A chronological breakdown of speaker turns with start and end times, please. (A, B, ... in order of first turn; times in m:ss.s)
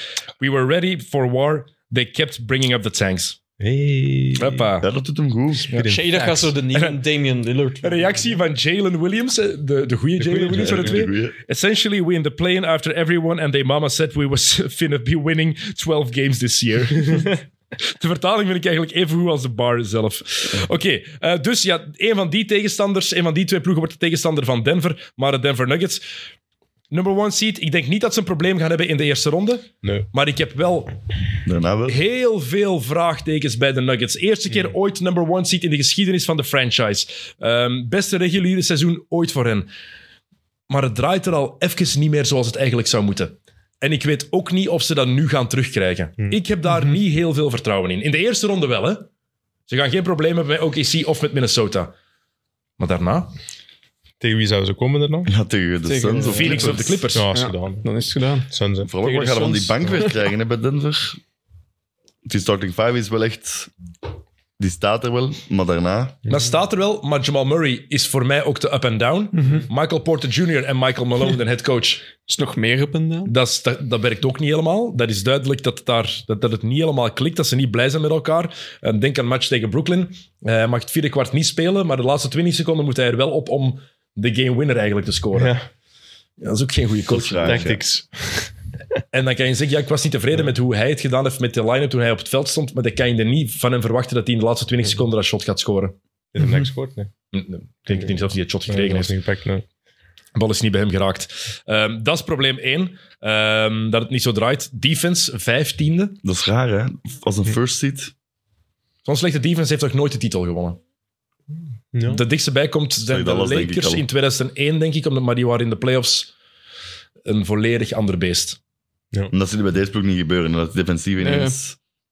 0:00.4-0:03.4 A
0:03.6-0:04.7 B
0:04.4-0:04.9 A
0:04.8-0:05.7 C
0:05.7-0:06.5 B
0:05.8-0:08.3 D
0:07.8-0:26.0 A
0:10.2-0:11.0 B
0:10.5-0:11.3 C
0:26.9-0:30.9 A
0:31.4-0:32.0 C
0:31.9-0:39.7 A
0:40.7-0:49.1 A
0:49.7-0:51.9 A
0:52.8-0:53.3 A
0:54.2-0:55.3 B
0:55.2-0:56.8 C
0:55.8-1:00.2 D
0:56.3-0:57.3 A
0:57.1-0:57.9 B
0:58.5-0:58.9 B
0:58.8-1:01.2 C
1:02.2-1:03.7 C
1:04.6-1:06.2 C
1:06.3-1:12.0 A
1:09.3-1:09.6 D
1:12.2-1:13.3 D
1:13.2-1:25.5 A
1:25.3-1:25.6 B
1:26.4-1:27.8 A
1:27.1-1:27.8 C
1:27.4-1:28.5 B
1:29.1-1:35.9 A
1:36.3-1:37.1 B
1:36.4-1:36.6 D
1:37.3-1:39.1 A
1:37.9-1:39.6 B
1:40.3-1:46.2 A
1:46.2-1:48.1 C
1:49.0-1:50.8 A
1:51.9-1:52.2 B
1:52.0-1:56.3 A
1:53.0-1:54.0 C
1:57.2-1:58.6 A
1:59.3-2:01.8 C
2:01.2-2:01.6 D